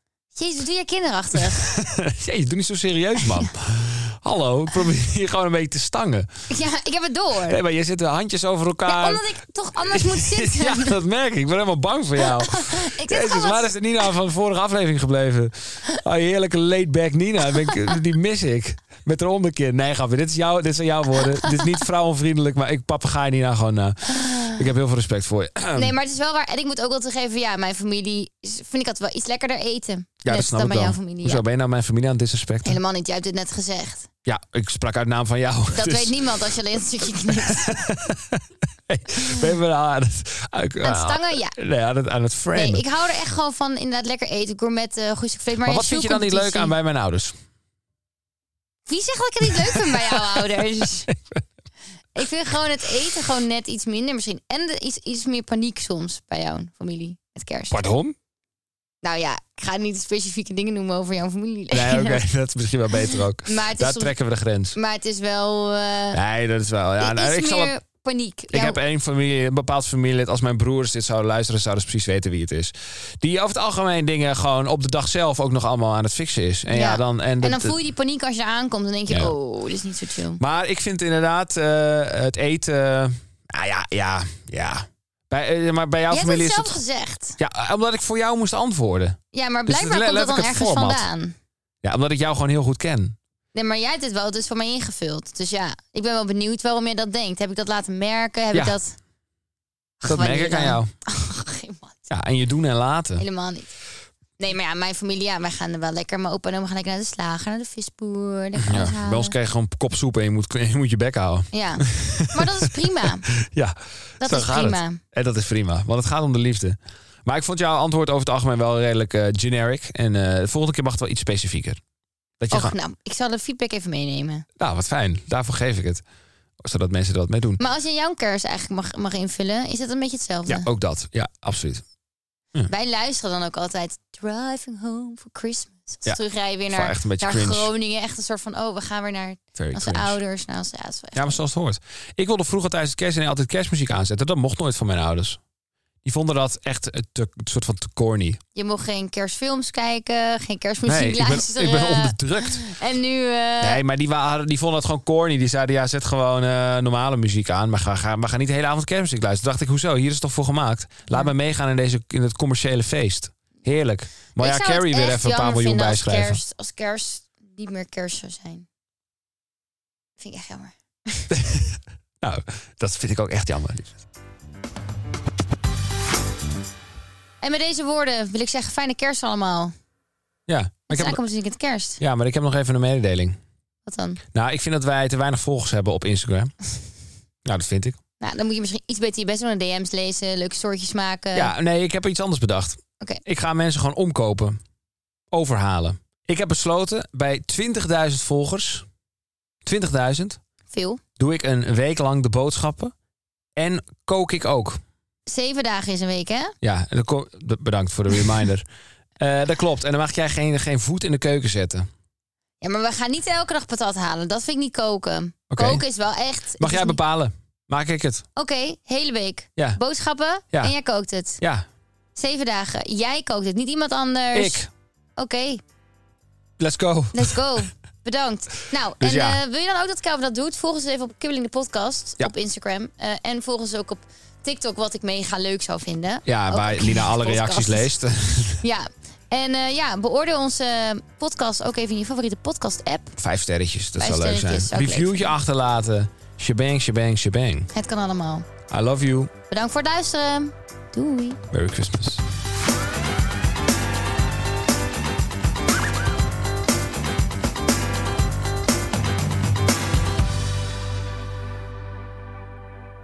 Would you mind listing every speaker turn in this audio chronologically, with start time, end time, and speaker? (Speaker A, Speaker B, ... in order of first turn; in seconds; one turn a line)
Speaker A: 0.3-1.7
Speaker B: 1.4-6.3
Speaker A: 6.5-7.6
Speaker B: 7.5-9.2
Speaker A: 8.8-11.0
Speaker B: 9.9-25.9
Speaker A: 12.2-13.7
Speaker A: 21.3-21.7
Speaker A: 24.1-24.6
Speaker A: 25.7-31.4
Speaker B: 30.2-32.8
Speaker A: 32.6-34.1
Speaker B: 34.2-36.4
Speaker A: 35.7-37.8
Speaker B: 37.3-42.8
Speaker A: 40.8-41.5
Speaker A: 42.5-46.7
Speaker B: 45.6-47.3
Speaker A: 48.9-51.1
Speaker B: 49.5-50.4
Speaker B: 51.1-51.4
Speaker A: 52.1-57.8
Speaker B: 57.7-58.1
Speaker A: 59.0-62.2
Speaker B: 61.7-64.8
Speaker A: 63.4-64.1
Speaker A: 64.7-66.2
Speaker B: 66.1-67.7
Speaker A: 67.0-68.8
Speaker B: 68.5-77.8
Speaker A: 76.7-80.4
Speaker B: 79.1-79.3
Speaker B: 80.4-86.8
Speaker A: 86.1-87.4
Speaker B: 87.4-91.1
Speaker A: 89.3-91.3
Speaker B: 91.8-93.2
Speaker A: 93.5-99.0
Speaker A: 100.0-102.0
Speaker B: 100.0-100.9
Speaker B: 102.1-103.2
Speaker A: 103.2-103.7
Speaker A: 104.4-109.3
Speaker B: 108.5-121.8
Speaker A: 111.5-113.3
Speaker A: 114.2-115.0
Speaker B: 122.4-122.7
Speaker A: 122.5-124.5
Speaker B: 124.6-126.0
Speaker B: 126.6-127.6
Speaker A: 127.6-130.7
Speaker B: 130.5-131.8
Speaker A: 132.7-141.4
Speaker B: 136.7-137.7
Speaker B: 139.6-140.2
Speaker B: 141.1-145.4
Speaker B: 146.0-148.4
Speaker A: 148.5-153.8
Speaker B: 150.8-152.6
Speaker B: 153.6-166.4
Speaker A: 164.4-168.7
Speaker A: 170.2-171.3
Speaker B: 171.3-174.0
Speaker A: 177.4-179.7
Speaker B: 180.5-181.2
Speaker A: 180.9-182.0
Speaker B: 182.0-183.4
Speaker A: 183.8-184.2
Speaker B: 184.3-186.5
Speaker B: 187.4-188.0
Speaker A: 188.2-191.5
Speaker B: 191.3-194.6
Speaker B: 195.3-198.8
Speaker B: 199.6-200.4
Speaker A: 200.7-201.0
Speaker B: 201.2-202.9
Speaker B: 203.6-204.8
Speaker A: 205.3-206.5
Speaker B: 206.6-208.7
Speaker B: 209.2-211.9
Speaker A: 212.6-217.0
Speaker B: 215.5-215.8
Speaker B: 216.6-218.2
Speaker A: 218.3-221.4
Speaker B: 221.4-221.6
Speaker A: 222.2-224.6
Speaker B: 224.3-224.7
Speaker A: 225.2-225.6
Speaker B: 226.6-227.4
Speaker A: 227.1-237.9
Speaker B: 229.0-229.4
Speaker B: 236.2-238.6
Speaker A: 238.6-243.1
Speaker B: 243.2-247.7
Speaker A: 244.0-245.3
Speaker A: 247.7-248.5
Speaker B: 248.7-249.3
Speaker A: 249.5-251.4
Speaker B: 251.5-252.2